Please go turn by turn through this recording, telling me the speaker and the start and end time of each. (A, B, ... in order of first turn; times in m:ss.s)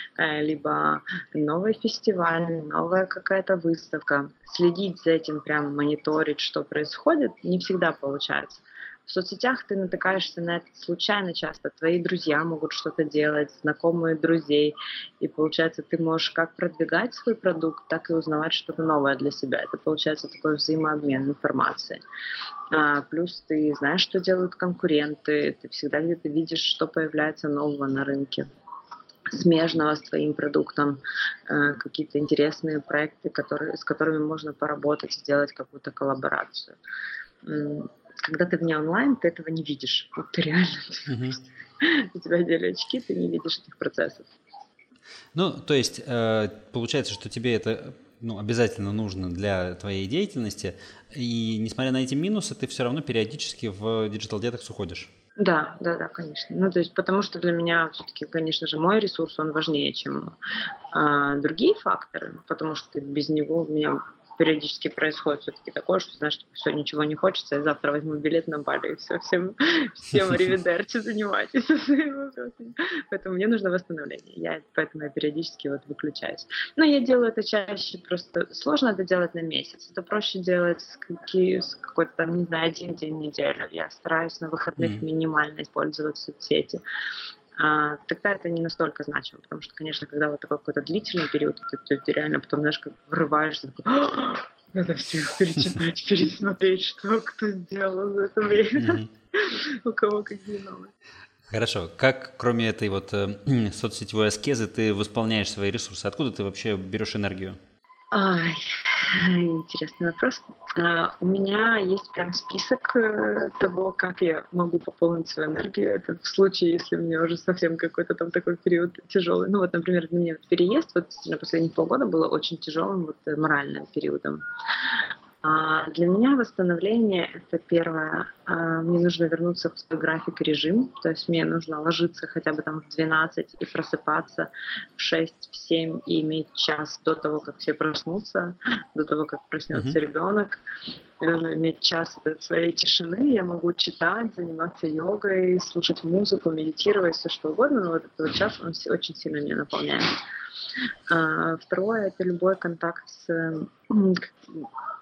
0:00.2-0:22.0 A
0:22.7-0:28.5 A
0:29.3-0:36.8 A
0:37.4-0:44.3 A
0:41.1-0:41.4 B
0:45.3-0:55.1 B
0:55.4-1:00.3 A
1:00.9-1:26.8 A
1:24.8-1:25.0 B
1:27.6-1:40.9 A
1:38.8-1:39.1 B
1:41.5-1:47.6 B
1:48.1-2:20.6 A
2:21.2-2:30.1 A
2:31.1-2:34.7 A